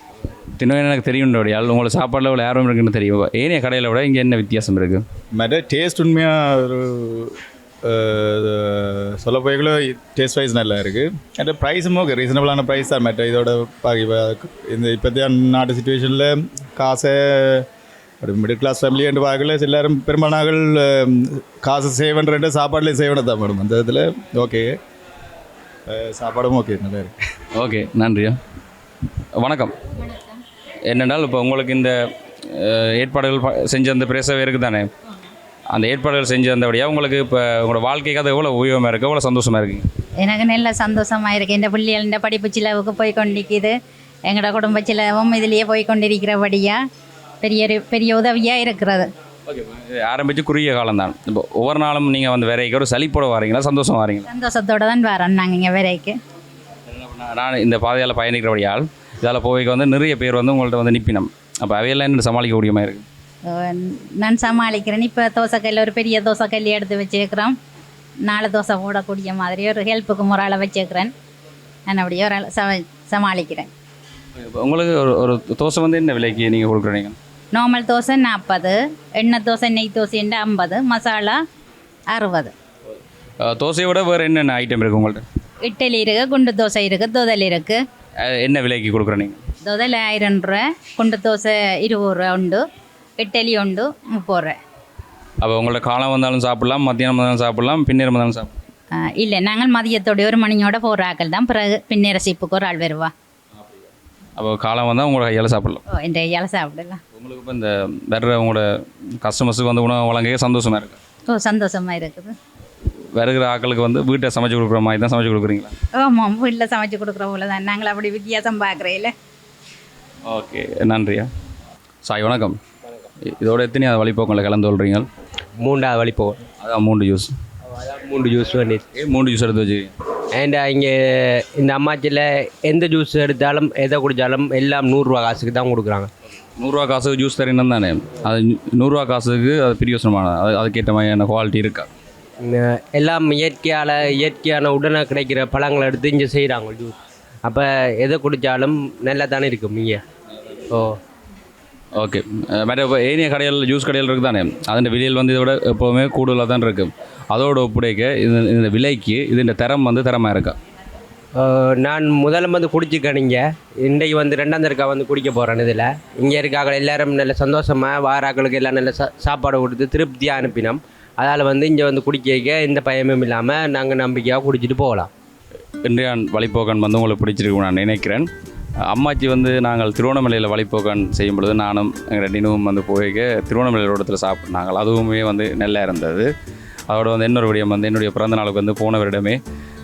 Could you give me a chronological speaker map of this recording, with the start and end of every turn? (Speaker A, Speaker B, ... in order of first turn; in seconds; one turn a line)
Speaker A: 0.6-5.0
Speaker B: 5.3-17.7
Speaker B: 18.2-24.7
Speaker B: 25.9-27.1
Speaker A: 27.6-28.4
Speaker A: 29.4-29.8
Speaker C: 30.1-30.4
Speaker A: 30.9-32.0
Speaker A: 32.5-34.9
Speaker A: 35.7-39.9
Speaker C: 40.2-43.7
Speaker C: 44.3-46.8
Speaker C: 47.4-49.1
Speaker A: 49.5-54.3
Speaker C: 54.3-56.1
Speaker A: 56.9-63.0
Speaker C: 63.5-67.5
Speaker C: 68.3-71.1
Speaker C: 71.9-73.7
Speaker A: 74.4-77.2
Speaker C: 77.5-81.4
Speaker C: 82.1-82.5
Speaker A: 83.4-85.2
Speaker C: 85.7-87.8
Speaker A: 88.2-89.4
Speaker C: 89.6-92.6
Speaker C: 93.2-94.6
Speaker A: 95.4-98.5
Speaker C: 98.9-103.1
Speaker A: 104.4-105.8
Speaker C: 105.9-107.0
Speaker A: 107.2-108.7
Speaker A: 109.2-111.0
Speaker C: 111.3-112.3
Speaker A: 113.2-115.7
Speaker C: 116.0-119.1
Speaker A: 120.3-121.3
Speaker A: 122.0-122.6
Speaker A: 123.3-125.1
Speaker D: 125.6-126.4
Speaker A: 126.6-127.3
Speaker D: 127.9-128.8
Speaker A: 128.9-129.9
Speaker D: 130.4-136.1
Speaker A: 136.6-141.9
Speaker D: 142.4-147.0
Speaker D: 147.5-150.0
Speaker A: 152.0-160.6
Speaker D: 161.4-175.1
Speaker A: 175.8-178.3
Speaker A: 178.9-186.3
Speaker A: 186.9-189.4